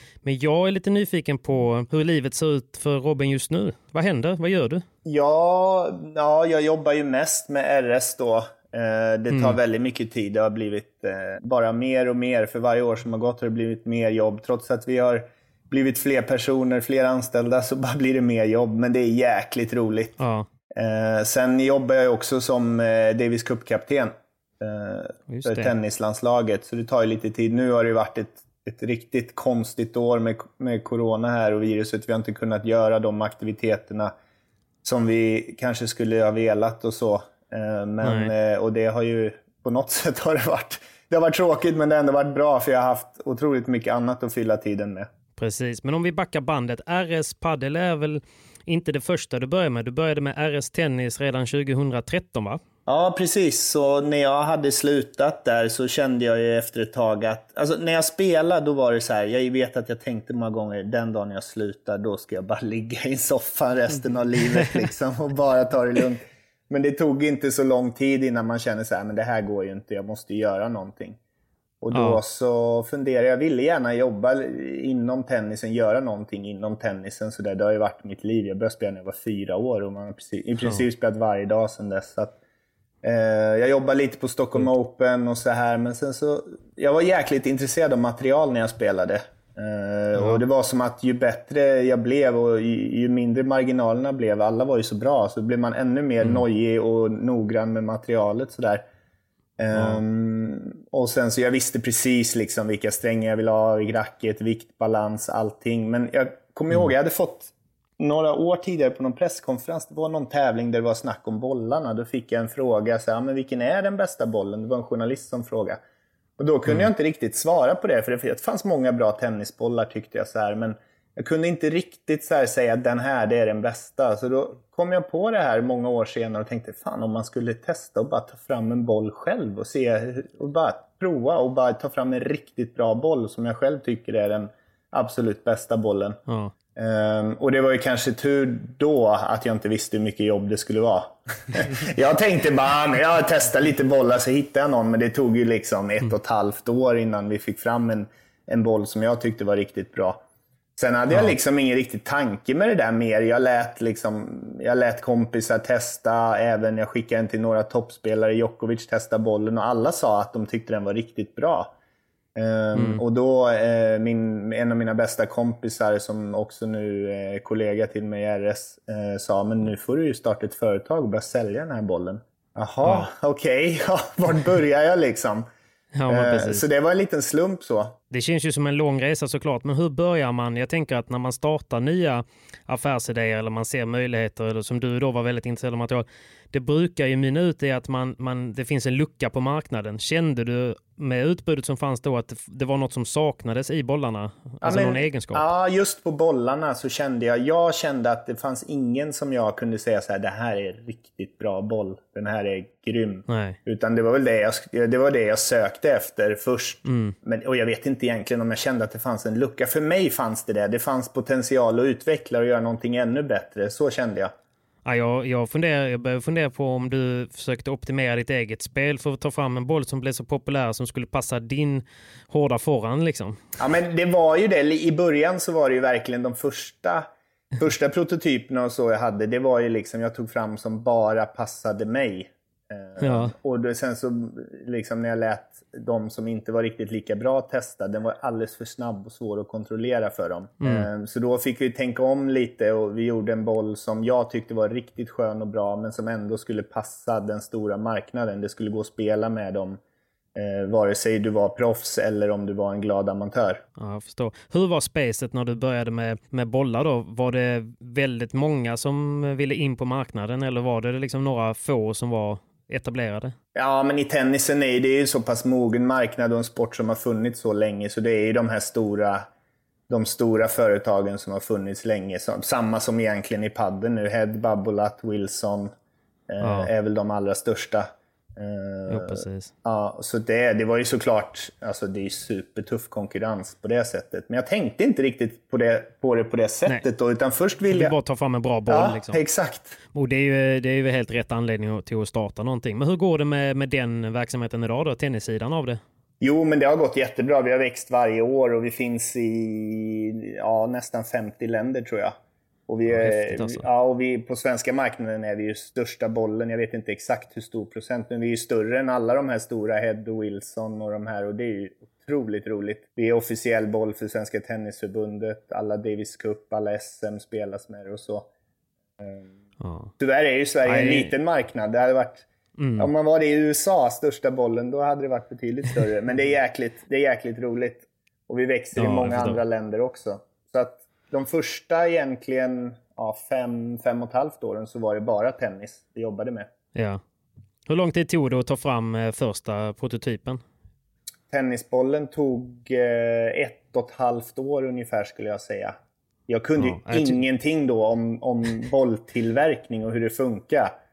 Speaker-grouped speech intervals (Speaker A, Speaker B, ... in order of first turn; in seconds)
Speaker A: 0.2-4.8, 9.3-9.6, 20.2-20.5, 25.3-25.7, 38.0-38.3, 45.4-52.6, 71.9-72.2, 90.2-90.4, 99.7-100.0, 136.3-136.5, 151.1-151.3, 162.7-163.0, 172.8-173.1, 175.9-176.7, 178.1-195.4, 203.3-203.6, 206.8-207.2, 214.8-223.4, 233.0-233.3, 240.6-240.9, 253.8-263.4, 276.4-276.7, 278.9-279.5, 287.7-289.2, 289.9-295.8, 302.9-303.6, 319.6-319.9, 320.6-321.1, 322.6-322.9, 328.8-329.4, 336.8-337.0, 337.7-340.4, 346.6-347.2
Speaker B: 5.0-20.2, 20.8-34.1, 34.8-45.1, 52.9-71.2, 71.8-82.4, 83.0-98.8, 99.6-115.8, 116.4-136.2, 136.8-150.2, 150.8-161.7, 162.3-175.5, 176.1-178.0, 194.6-214.3, 223.6-227.1, 227.6-249.8, 250.3-253.6, 263.6-269.3, 269.9-275.7, 276.3-287.9, 288.7-289.8, 296.2-302.1, 302.7-318.3, 319.0-319.3, 320.0-322.3, 322.8-336.5, 341.3-345.8, 346.3-350.7